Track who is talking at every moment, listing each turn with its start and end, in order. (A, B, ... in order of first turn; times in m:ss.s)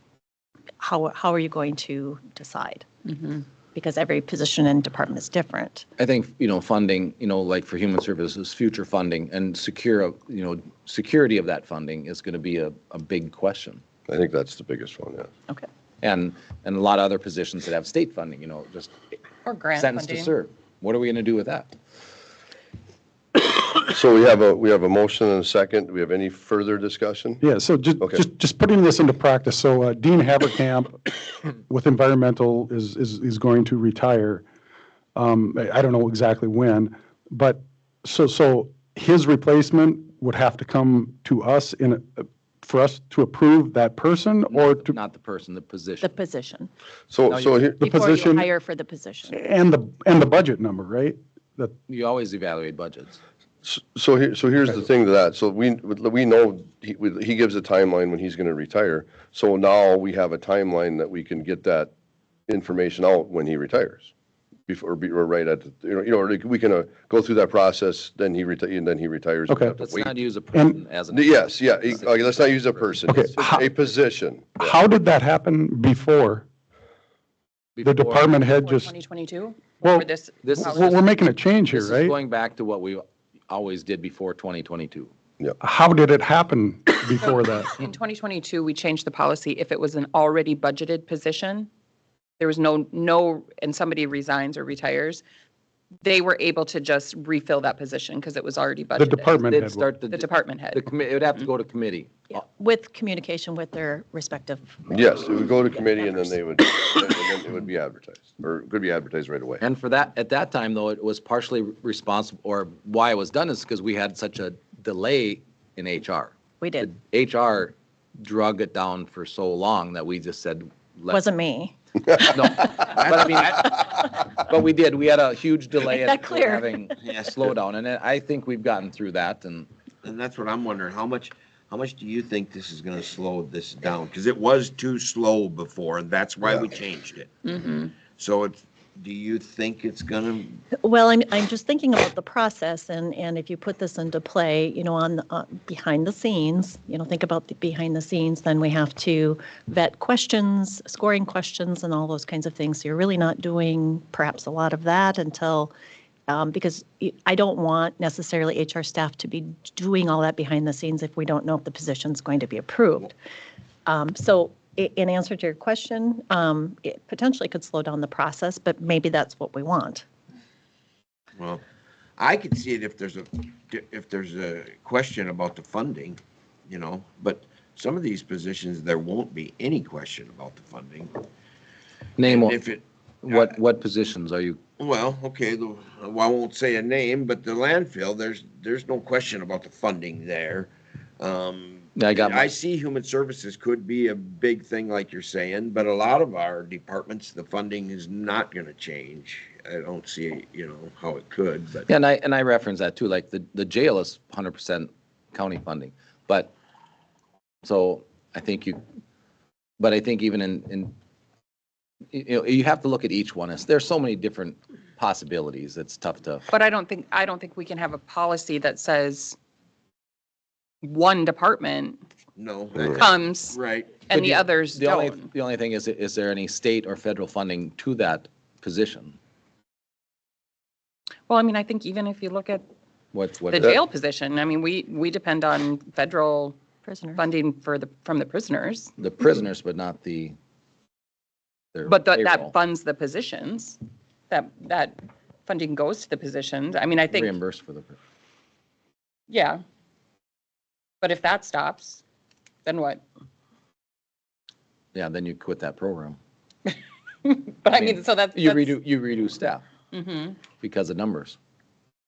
0:00.8-0:02.9 A
0:03.1-0:03.4 B
0:03.7-0:05.9 A
0:06.0-0:13.8 C
0:14.1-0:15.3 D
0:16.0-0:18.9 C
0:19.4-0:20.3 B
0:19.8-0:21.7 C
0:23.6-0:27.4 D
0:27.4-0:34.4 E
0:35.2-0:45.0 E
0:44.5-0:46.1 C
0:46.0-0:46.7 A
0:47.1-0:47.8 D
0:47.3-0:47.6 C
0:47.8-0:48.5 E
0:47.8-0:49.4 A
0:49.3-0:51.7 E
0:51.9-0:53.2 C
0:53.6-1:01.9 D
1:02.5-1:04.1 D
1:04.7-1:10.1 D
1:09.5-1:09.8 E
1:09.7-1:12.9 C
1:10.5-1:10.8 E
1:11.1-1:14.8 D
1:13.1-1:13.6 E
1:14.6-1:16.5 E
1:17.8-1:18.3 C
1:17.8-1:19.0 E
1:18.3-1:20.9 B
1:19.8-1:22.1 E
1:20.4-1:21.0 C
1:21.7-1:25.1 C
1:25.6-1:27.7 E
1:27.2-1:31.7 B
1:32.4-1:35.2 B
1:36.0-1:39.4 B
1:39.0-1:39.9 E
1:39.5-1:42.1 C
1:40.1-1:40.8 B
1:42.3-1:44.9 A
1:44.9-1:49.6 D
1:45.9-1:46.3 A
1:49.6-2:01.2 C
1:56.6-1:56.9 A
2:01.1-2:02.3 A
2:02.2-2:09.7 C
2:02.8-2:03.8 F
2:05.9-2:06.9 A
2:07.0-2:07.4 F
2:10.0-2:17.3 F
2:17.4-2:18.0 B
2:18.1-2:20.6 F
2:20.8-2:35.7 A
2:36.3-2:43.1 A
2:43.9-2:50.1 A
2:52.2-3:01.2 F
3:02.2-3:02.6 C
3:02.2-3:03.6 F
3:03.2-3:04.6 C
3:04.8-3:21.9 F
3:12.0-3:12.5 C
3:21.9-3:26.5 C
3:27.6-3:28.8 C
3:29.8-3:30.9 C
3:32.1-3:36.5 C
3:36.5-3:39.4 B
3:40.8-3:42.0 B
3:42.4-3:44.0 F
3:42.9-3:45.3 B
3:44.1-3:49.2 C
3:51.3-3:52.6 B
3:53.1-3:53.8 C
3:53.5-3:56.6 B
3:56.8-3:57.2 A
3:57.2-3:58.9 B
3:59.0-4:00.4 C
4:01.7-4:02.5 C
4:01.9-4:03.8 B
4:04.3-4:07.4 B
4:07.1-4:08.0 C
4:09.3-4:09.6 B
4:11.0-4:12.0 B
4:12.6-4:13.0 B
4:14.9-4:16.2 C
4:17.2-4:18.8 B
4:17.8-4:19.6 C
4:19.9-4:20.5 B
4:20.6-4:21.4 C